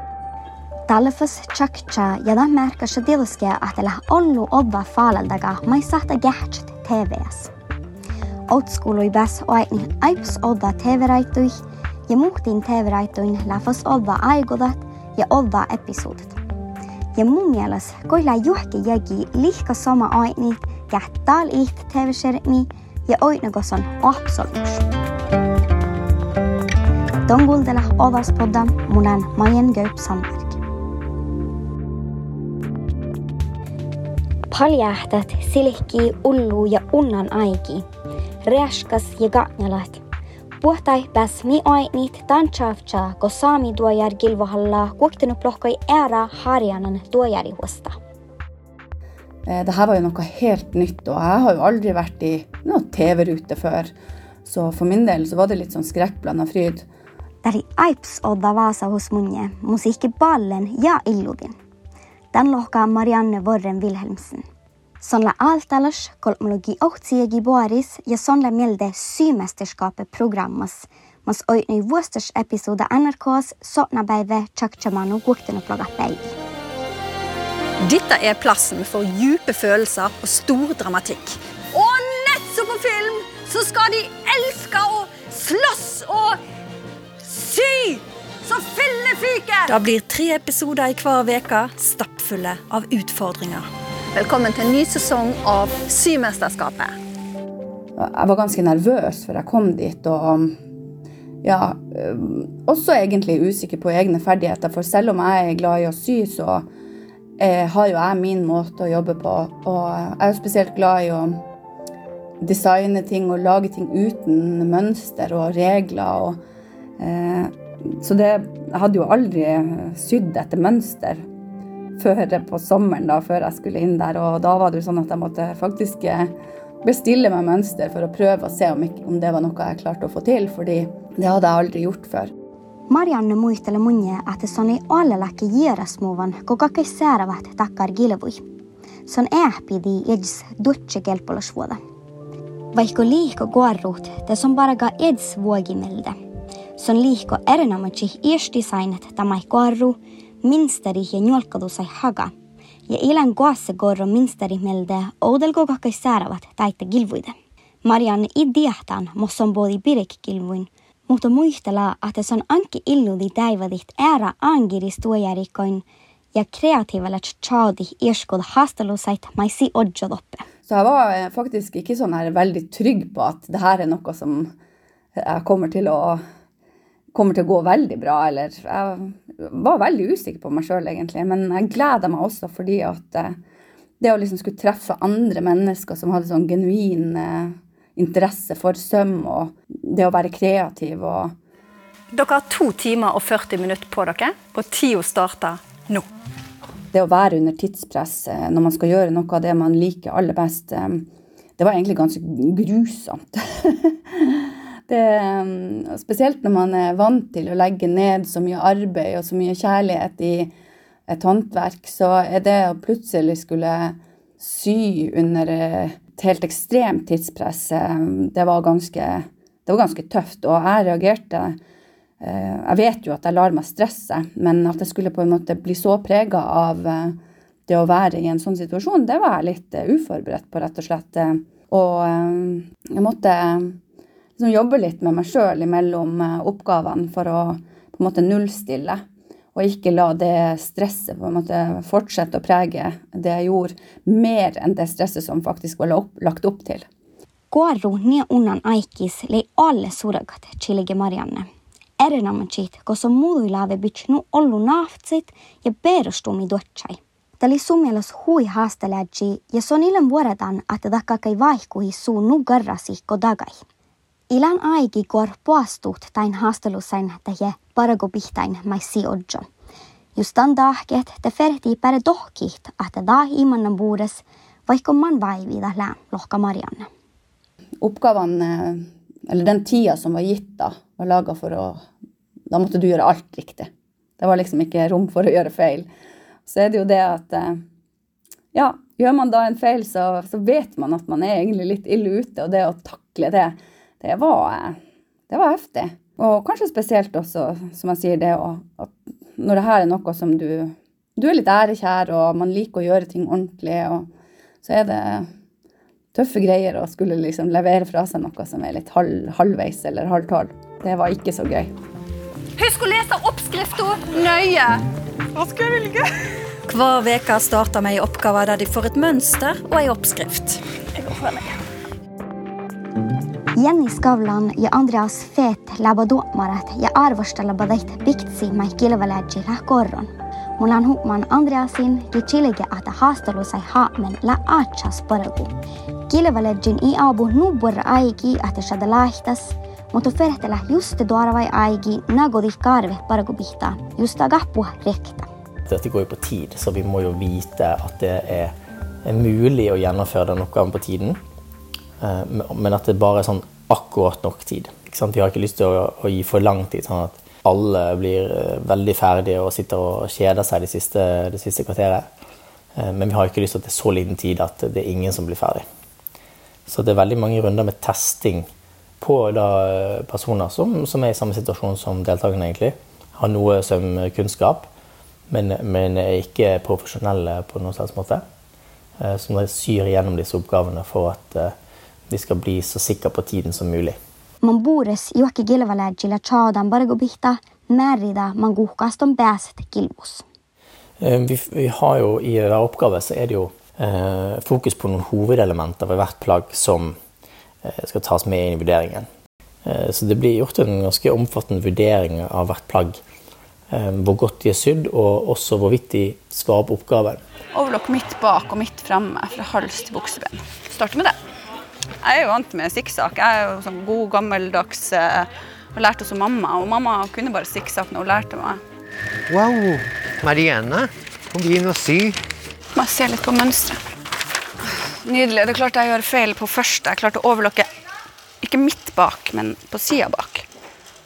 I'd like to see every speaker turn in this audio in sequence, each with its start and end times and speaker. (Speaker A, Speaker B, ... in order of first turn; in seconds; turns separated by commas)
Speaker A: 0.9-7.5, Speaker A: 8.5-11.6, Speaker A: 12.1-16.4, Speaker A: 17.2-24.8, Speaker A: 27.3-30.6, Speaker A: 34.5-37.9, Speaker A: 38.4-40.0, Speaker A: 40.6-48.0, Speaker B: 49.5-53.9, Speaker B: 54.5-56.9, Speaker A: 57.4-61.6, Speaker A: 62.3-64.4, Speaker A: 65.0-76.3, Speaker C: 77.8-86.4, Speaker C: 87.2-97.0, Speaker B: 98.0-100.5, Speaker B: 101.4-106.7, Speaker B: 107.4-111.4, Speaker B: 112.4-116.4, Speaker B: 117.0-121.2, Speaker B: 122.0-126.3, Speaker B: 126.8-132.3, Speaker A: 132.9-138.4, Speaker A: 139.1-141.8, Speaker A: 142.7-146.2, Speaker A: 146.8-152.3, Speaker A: 152.9-157.3, Speaker A: 157.8-170.4, Speaker B: 170.7-174.5, Speaker B: 175.2-176.2, Speaker B: 177.1-183.3, Speaker B: 184.0-191.3, Speaker C: 192.1-196.1, Speaker B: 196.9-201.1, Speaker B: 201.6-210.5, Speaker B: 211.1-221.6, Speaker B: 222.2-227.2, Speaker B: 227.7-233.8, Speaker B: 234.4-239.0, Speaker B: 239.6-246.9, Speaker A: 247.5-251.5, Speaker A: 252.0-263.6, Speaker A: 264.3-269.5, Speaker A: 270.2-276.9, Speaker B: 277.8-281.8, Speaker B: 282.5-285.9, Speaker B: 286.5-287.6, Speaker B: 288.5-294.8, Speaker B: 295.3-304.1, Speaker B: 304.6-305.3, Speaker B: 306.1-311.7, Speaker C: 312.6-314.8, Speaker C: 315.5-316.0, Speaker C: 316.7-321.6, Speaker A: 323.6-335.5, Speaker A: 336.1-345.3, Speaker D: 345.7-348.5, Speaker D: 349.1-351.2, Speaker D: 352.0-362.1, Speaker D: 362.8-365.6, Speaker D: 366.7-368.5, Speaker D: 369.0-374.7, Speaker D: 375.3-378.2, Speaker D: 379.0-381.5, Speaker D: 382.1-384.0, Speaker A: 384.4-390.2, Speaker D: 391.0-396.9, Speaker D: 397.6-399.1, Speaker D: 399.6-403.0, Speaker D: 403.7-407.2, Speaker B: 407.5-411.2, Speaker B: 412.0-418.6, Speaker E: 419.3-422.2, Speaker B: 422.8-423.8, Speaker B: 424.7-427.7, Speaker B: 428.4-430.5